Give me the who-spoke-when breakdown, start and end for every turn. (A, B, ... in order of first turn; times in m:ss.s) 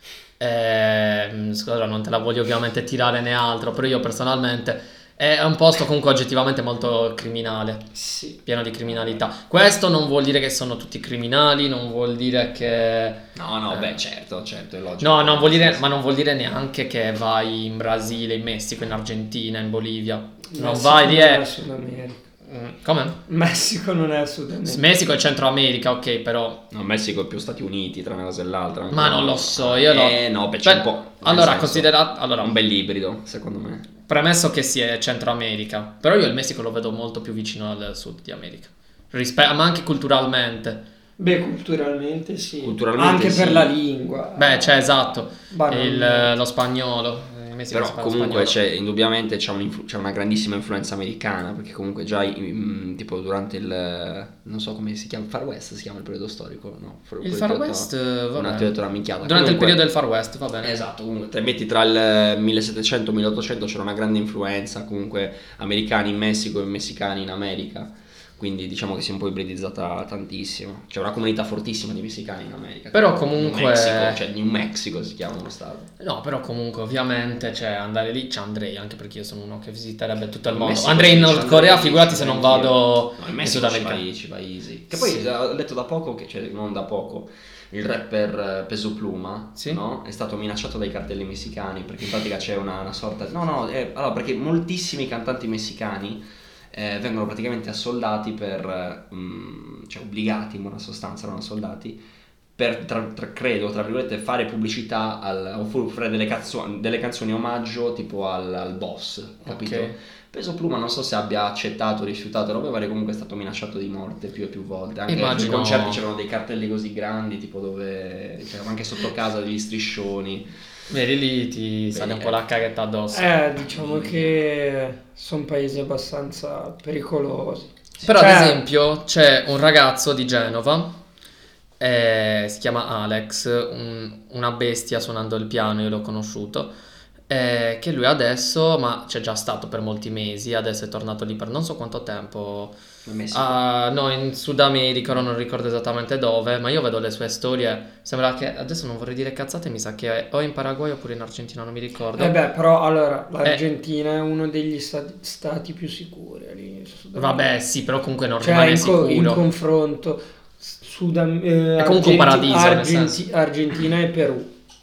0:00.4-0:07.9 A
0:08.0-0:08.4 B
0:08.4-0:14.0 A
0:13.4-0:15.9 C
0:15.0-0:21.5 A
0:20.5-0:22.2 B
0:22.5-0:23.2 A
0:23.3-0:24.8 B
0:24.7-0:26.7 A
0:26.7-0:33.9 C
0:28.9-0:32.6 A
0:34.1-0:40.8 A
0:41.2-0:44.8 B
0:42.6-0:43.7 C
0:44.4-0:48.6 A
0:45.5-0:46.3 B
0:47.7-0:59.8 C
0:57.2-1:00.8 A
1:00.6-1:15.9 C
1:12.9-1:14.2 A
1:16.0-1:24.0 A
1:20.5-1:42.0 C
1:24.9-1:25.2 A
1:29.6-1:29.8 A
1:42.6-2:00.5 C
1:49.4-1:50.0 A
1:55.1-1:56.0 A
2:00.9-2:03.4 A
2:01.9-2:02.4 C
2:03.1-2:08.6 B
2:03.6-2:04.3 C
2:08.0-2:11.0 A
2:11.8-2:16.8 A
2:17.3-2:22.8 A
2:23.1-2:23.6 C
2:23.3-2:32.4 A
2:32.2-2:37.5 B
2:37.2-2:39.4 A
2:38.4-2:44.5 B
2:41.8-2:43.2 A